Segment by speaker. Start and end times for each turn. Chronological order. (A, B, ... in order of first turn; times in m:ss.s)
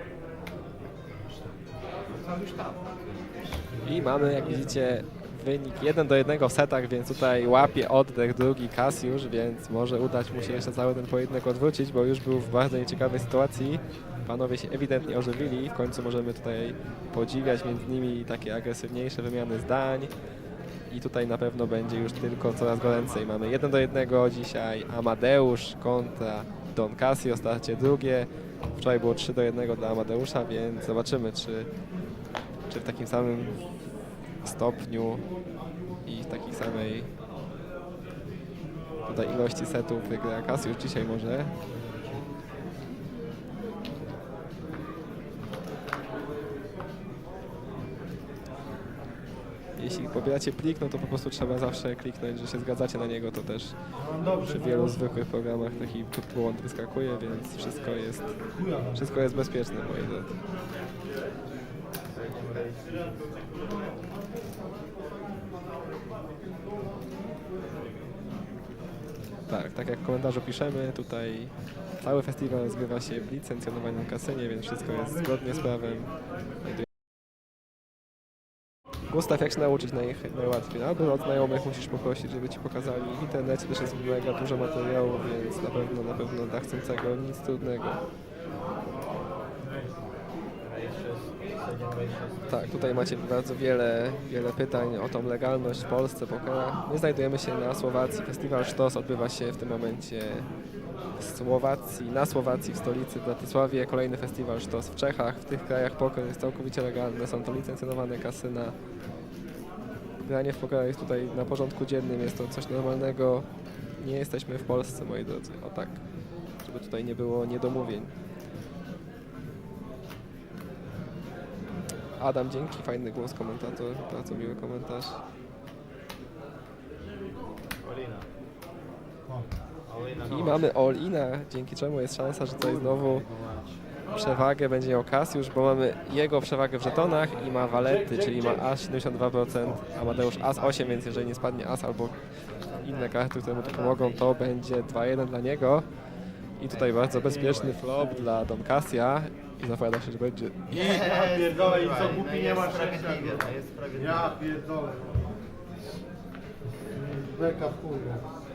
0:00.8-0:03.4 A
0:03.6-0:05.0 B
0:03.8-0:20.1 C
0:10.3-0:10.7 A
0:13.1-0:14.3 B
0:20.9-0:31.7 C
0:22.7-0:23.8 A
0:32.7-0:33.7 C
0:34.4-0:35.3 C
0:36.0-0:37.1 C
0:39.1-0:41.5 C
0:41.9-0:42.2 A
0:49.8-0:53.8 C
0:54.0-0:55.1 B
0:54.3-1:00.4 C
0:58.5-0:59.8 B
1:02.1-1:03.2 A
1:09.5-1:16.1 C
1:15.2-1:15.6 B
1:19.1-1:28.0 C
1:29.6-1:30.0 B
1:30.6-1:33.1 A
1:32.5-1:40.5 C
1:41.2-1:48.8 C
1:50.2-1:53.5 C
1:54.0-1:56.0 C
1:56.6-1:58.1 C
2:02.2-2:05.2 C
2:07.8-2:08.3 A
2:09.9-2:10.7 A
2:10.2-2:13.3 C
2:12.6-2:13.8 A
2:14.1-2:25.9 C
2:17.8-2:18.8 B
2:19.6-2:21.4 A
2:22.6-2:24.3 A
2:26.6-2:30.9 C
2:26.7-2:27.7 A
2:27.2-2:28.5 B
2:30.7-2:34.4 A
2:30.9-2:35.3 B
2:36.9-2:38.2 B